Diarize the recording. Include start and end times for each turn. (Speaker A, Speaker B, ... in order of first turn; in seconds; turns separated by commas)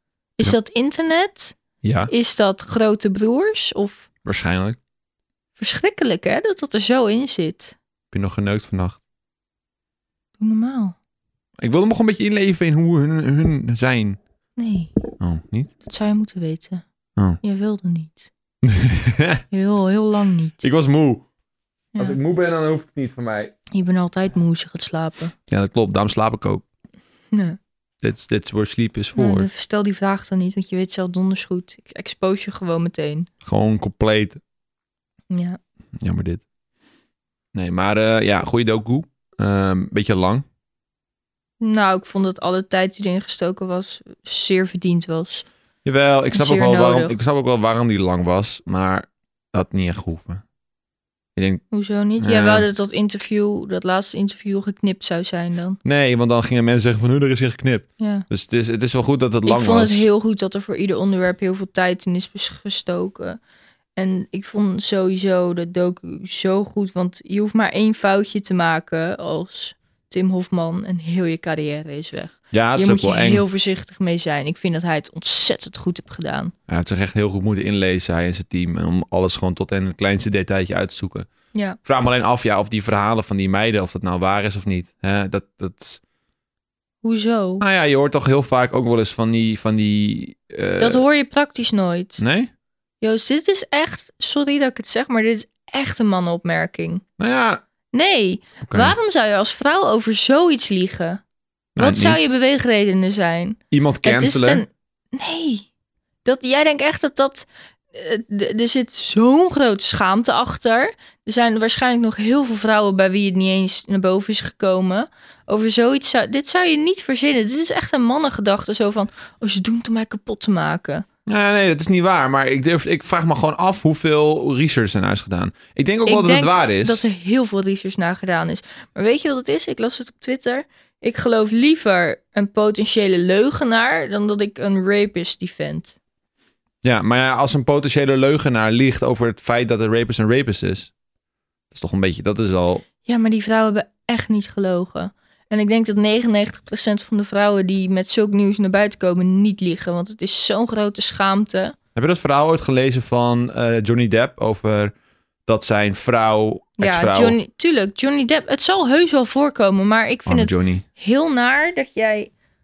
Speaker A: 0.4-1.6, Speaker B: 1.8-2.1, Speaker A: 2.1-4.1, Speaker B: 4.2-4.8, Speaker A: 5.6-7.8, Speaker B: 8.1-9.0, Speaker A: 10.4-11.0, Speaker B: 11.6-14.2, Speaker A: 14.6-14.9, Speaker B: 15.2-15.7, Speaker A: 15.8-16.8, Speaker A: 17.4-18.3, Speaker B: 18.6-19.4, Speaker A: 19.5-20.6, Speaker B: 20.6-21.2, Speaker B: 22.0-23.5, Speaker A: 23.7-25.3, Speaker B: 25.5-26.6, Speaker A: 27.3-27.6, Speaker B: 28.0-29.5, Speaker A: 29.1-33.3, Speaker B: 33.4-34.4, Speaker A: 35.3-35.6, Speaker B: 36.0-36.4, Speaker B: 37.5-40.5, Speaker A: 41.6-45.5, Speaker B: 45.9-50.4, Speaker A: 46.3-47.2, Speaker B: 51.4-51.6, Speaker A: 51.7-55.8, Speaker B: 52.2-52.7, Speaker B: 55.8-60.0, Speaker A: 58.0-58.3, Speaker A: 59.5-63.4, Speaker A: 64.0-76.5, Speaker B: 72.5-73.4, Speaker B: 76.7-81.3, Speaker B: 81.8-86.0, Speaker A: 87.0-87.6, Speaker B: 87.6-91.0, Speaker A: 90.8-92.2, Speaker B: 92.2-92.5, Speaker A: 93.0-97.0, Speaker B: 97.2-97.6, Speaker A: 97.9-101.2, Speaker B: 98.6-99.0, Speaker B: 101.8-102.3, Speaker A: 101.8-105.7, Speaker B: 103.7-104.6, Speaker A: 106.2-121.0, Speaker B: 121.3-127.0, Speaker A: 126.1-136.0, Speaker B: 136.8-140.9, Speaker B: 141.7-142.8, Speaker A: 143.1-151.8, Speaker B: 151.9-154.9, Speaker B: 155.5-157.4, Speaker A: 156.8-162.3, Speaker B: 160.3-160.8